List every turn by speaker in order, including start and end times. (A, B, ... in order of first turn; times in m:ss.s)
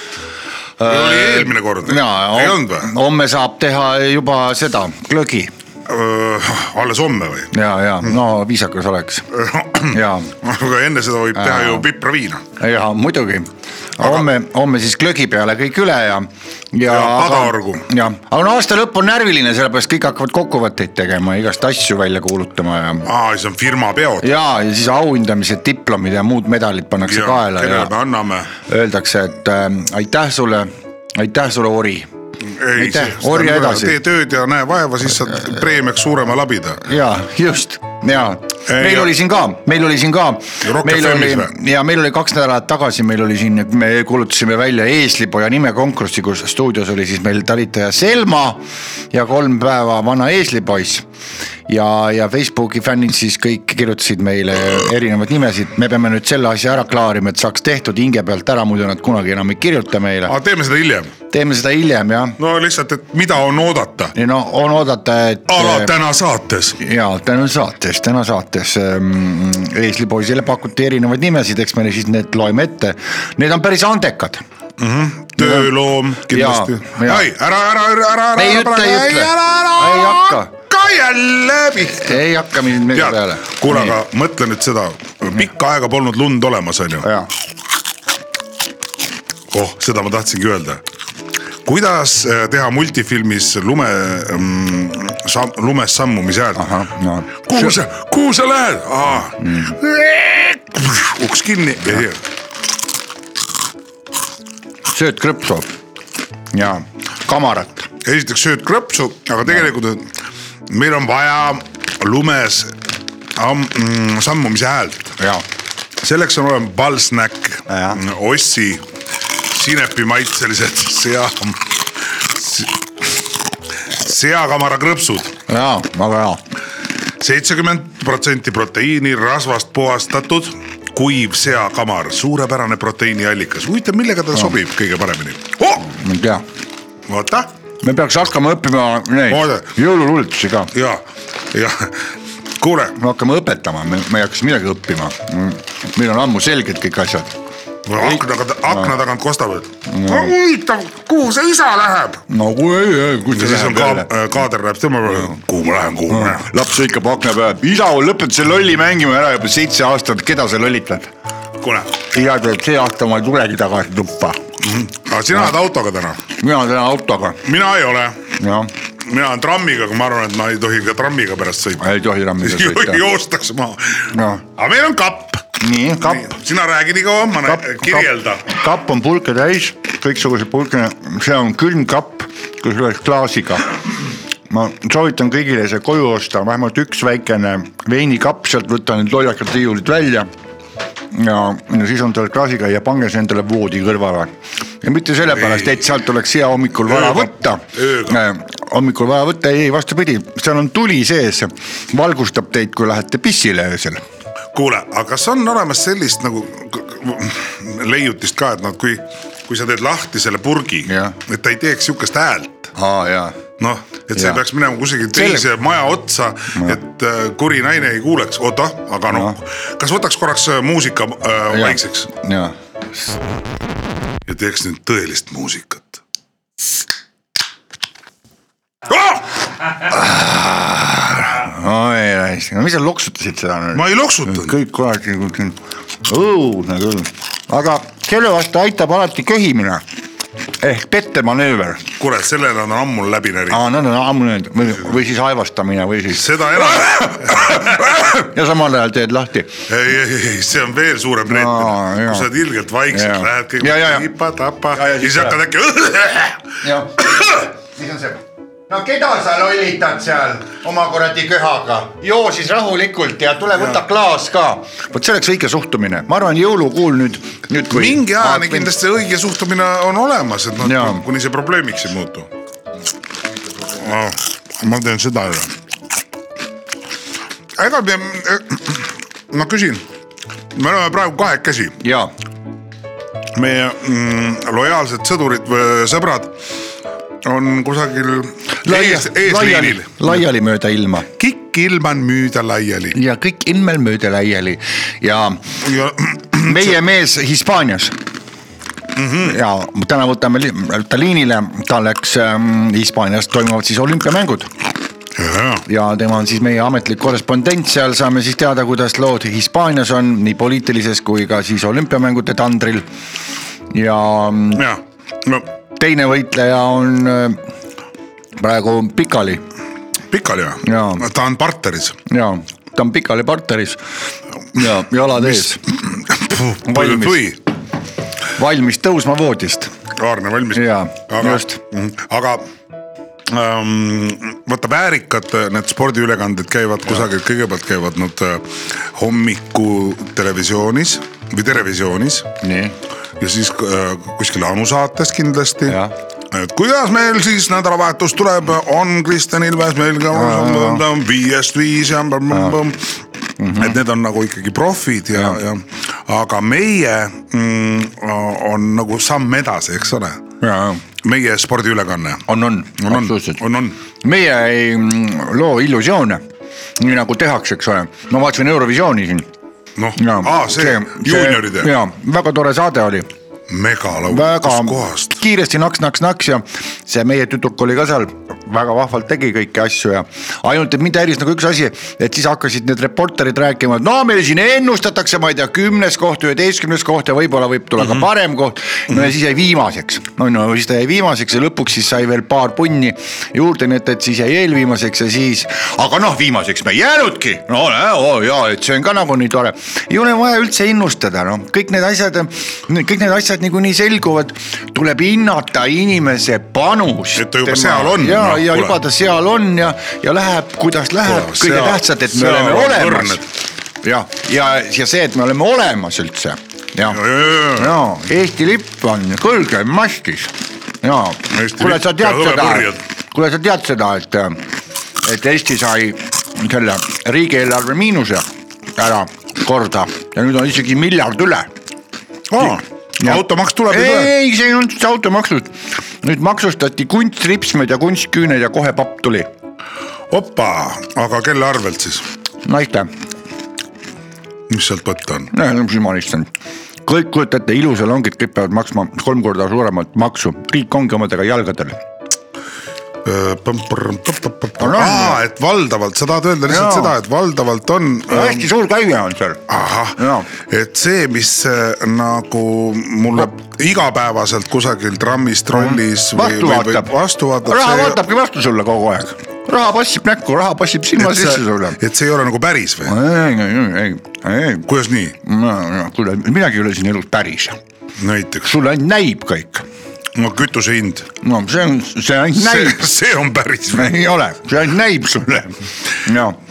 0:00.8-0:05.5 A
0:00.9-0:02.9 B
0:05.9-0:07.5 B
0:07.5-0:09.3 A
0:09.3-0:12.4 B
0:09.9-0:10.3 A
0:11.4-0:11.8 A
0:12.6-0:23.1 A
0:14.0-0:14.3 B
0:16.9-0:17.9 B
0:23.1-0:24.3 B
0:24.2-0:27.9 A
0:27.0-0:28.5 B
0:28.7-0:32.1 A
0:32.6-0:36.8 B
0:32.8-0:34.0 A
0:36.8-0:51.0 A
0:38.7-0:39.1 B
0:40.6-0:41.5 B
0:51.7-1:00.3 A
1:00.3-1:01.2 B
1:01.3-1:02.4 A
1:02.4-1:04.1 B
1:04.2-1:05.9 A
1:05.5-1:06.8 B
1:06.8-1:14.4 A
1:14.8-1:22.2 B
1:15.4-1:15.7 A
1:16.3-1:17.3 A
1:18.4-1:20.5 A
1:21.9-1:24.0 A
1:22.9-1:27.1 B
1:27.0-1:27.3 A
1:29.5-1:30.8 B
1:31.7-1:36.8 B
1:36.6-1:37.8 A
1:37.4-1:42.2 B
1:39.4-1:39.8 A
1:44.9-1:45.7 A
1:46.5-1:47.9 A
1:48.0-1:50.1 B
1:50.7-1:52.8 B
1:53.4-1:55.2 B
1:55.2-1:55.4 A
1:56.0-1:58.8 B
1:57.7-1:58.0 A
1:59.5-2:02.7 B
2:03.9-2:05.4 B
2:05.5-2:06.4 A
2:07.2-2:15.9 B
2:15.8-2:16.4 A
2:17.1-2:17.5 B
2:17.8-2:20.7 A
2:19.3-2:19.7 B
2:20.7-2:22.1 B
2:22.6-2:23.0 B
2:23.0-2:27.3 A
2:27.9-2:32.2 B
2:28.0-2:28.9 A
2:29.9-2:30.3 A
2:32.3-2:34.1 A
2:33.3-2:36.5 B
2:36.1-2:41.1 A
2:41.6-2:41.9 B
2:42.1-2:44.4 A
2:44.6-2:46.2 B
2:46.4-2:47.4 A
2:47.4-2:48.3 B
2:48.4-2:48.7 A
2:49.1-2:51.9 B
2:51.8-2:53.0 A
2:52.4-2:58.5 B
2:54.1-2:54.5 A
2:55.6-2:56.3 A
2:57.4-3:03.7 A
3:04.5-3:10.3 A
3:11.1-3:24.0 A
3:15.4-3:15.7 B
3:16.9-3:18.2 B
3:24.5-3:32.7 B
3:30.9-3:31.2 A
3:32.8-3:33.4 A
3:33.6-3:42.1 B
3:34.2-3:34.4 A
3:35.1-3:35.5 A
3:39.1-3:39.4 A
3:41.5-3:43.2 A
3:44.3-3:46.0 B
3:48.9-3:49.2 B
3:49.8-3:59.8 A
3:53.7-3:54.6 B
4:00.6-4:01.9 A
4:02.0-4:03.6 B
4:03.5-4:09.5 A
4:06.1-4:08.1 B
4:09.7-4:16.6 B
4:11.3-4:12.3 A
4:12.9-4:14.1 A
4:14.7-4:15.4 A
4:16.6-4:28.7 A
4:27.7-4:32.3 B
4:30.6-4:31.0 A
4:33.7-4:35.5 B
4:37.6-4:39.8 B
4:40.6-4:41.8 B
4:41.8-4:42.1 A
4:43.4-4:46.4 B
4:47.2-4:50.1 B
4:48.6-4:51.1 A
4:51.2-4:53.0 B
4:52.9-4:55.6 A
4:55.6-4:56.8 B
4:56.4-4:58.0 A
4:59.0-4:59.4 B
4:59.2-5:04.5 A
5:05.2-5:05.6 B
5:05.7-5:12.9 A
5:13.7-5:14.6 A
5:14.6-5:15.5 B
5:15.8-5:17.4 A
5:18.4-5:19.4 A
5:20.1-5:22.0 B
5:20.6-5:21.0 A
5:22.1-5:23.8 A
5:24.5-5:25.6 A
5:25.2-5:27.4 B
5:26.6-5:27.3 A
5:28.4-5:29.7 A
5:30.0-5:32.5 B
5:30.6-5:31.6 A
5:33.3-5:42.3 B
5:42.4-5:42.8 A
5:43.2-5:45.8 B
5:45.7-5:46.0 A
5:46.3-5:52.9 B
5:50.1-5:50.8 A
5:52.3-5:52.6 A
5:53.4-5:53.8 A
5:53.6-6:00.2 B
5:55.1-5:55.4 A
6:00.4-6:00.8 A
6:01.0-6:02.3 B
6:02.3-6:03.4 A
6:02.8-6:03.8 B
6:04.0-6:06.2 A
6:06.8-6:09.3 A
6:09.8-6:11.7 B
6:10.0-6:13.1 A
6:13.5-6:15.2 B
6:14.1-6:53.2 A
6:47.2-6:48.8 B
6:51.0-6:53.2 B
6:53.8-6:57.0 A
6:56.9-6:57.8 B
6:57.6-7:04.4 A
7:01.3-7:02.8 B
7:05.0-7:08.2 A
7:08.8-7:11.5 A
7:12.3-7:14.1 B
7:12.4-7:19.3 A
7:20.1-7:22.0 B
7:22.4-7:22.9 A
7:24.5-7:25.3 B
7:25.3-7:26.3 A
7:26.8-7:31.8 A
7:33.0-7:38.5 B
7:34.6-7:35.2 A
7:36.5-7:37.0 A
7:38.1-7:39.4 A
7:39.5-7:48.0 B
7:40.0-7:40.3 A
7:45.6-7:46.9 A
7:47.5-7:51.8 A
7:51.0-7:53.0 B
7:52.9-7:54.7 A
7:54.7-7:55.2 B
7:55.2-7:57.6 A
7:58.0-7:58.5 B
7:58.4-7:59.7 A
8:00.2-8:01.1 B
8:01.2-8:02.9 A
8:02.4-8:04.0 B
8:03.7-8:06.4 A